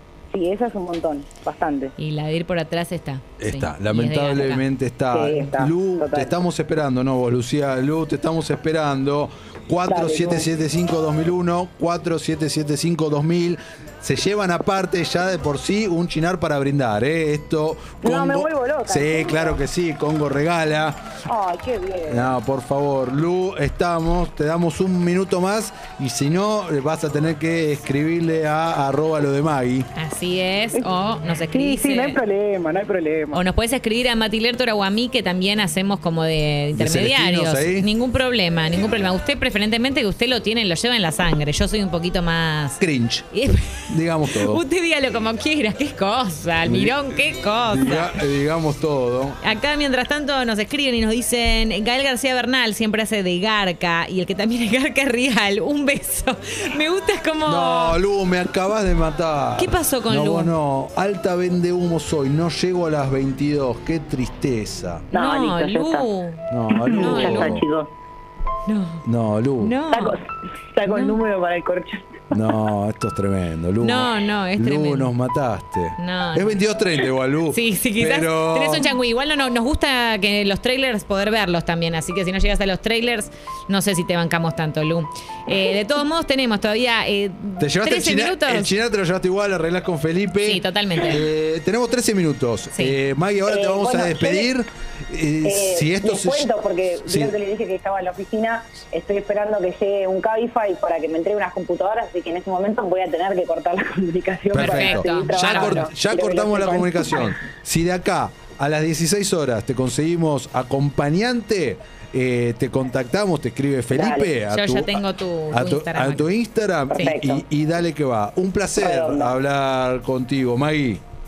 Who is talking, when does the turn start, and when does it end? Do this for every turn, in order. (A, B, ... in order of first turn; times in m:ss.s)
0:00.3-0:01.9 A
0:02.0-0:04.6 B
0:03.4-0:21.0 C
0:05.1-0:06.4 A
0:09.9-0:10.5 A
0:18.0-0:19.6 A
0:21.3-0:22.3 A
0:22.1-0:29.9 C
0:30.0-0:32.2 B
0:31.5-0:33.4 A
0:33.3-0:42.8 B
0:36.8-0:37.9 C
0:42.8-0:44.6 C
0:43.3-0:48.1 B
0:46.6-0:49.4 C
0:49.4-0:58.0 B
0:57.4-1:05.1 C
0:59.6-1:00.5 B
1:05.1-1:07.6 B
1:05.1-1:06.1 A
1:06.5-1:07.6 C
1:06.8-1:07.9 A
1:08.7-1:09.0 B
1:09.0-1:09.8 C
1:09.6-1:10.2 B
1:09.9-1:12.5 A
1:10.9-1:11.2 B
1:12.3-1:18.9 C
1:13.8-1:15.1 B
1:16.0-1:16.6 B
1:17.5-1:28.7 B
1:27.6-1:36.5 C
1:30.4-1:31.2 B
1:33.5-1:34.5 A
1:35.4-1:47.3 A
1:37.1-1:37.4 C
1:44.5-2:01.0 C
1:44.6-1:45.9 B
1:53.9-1:54.3 A
1:54.5-1:56.3 B
1:56.9-1:57.4 A
1:58.8-1:59.4 A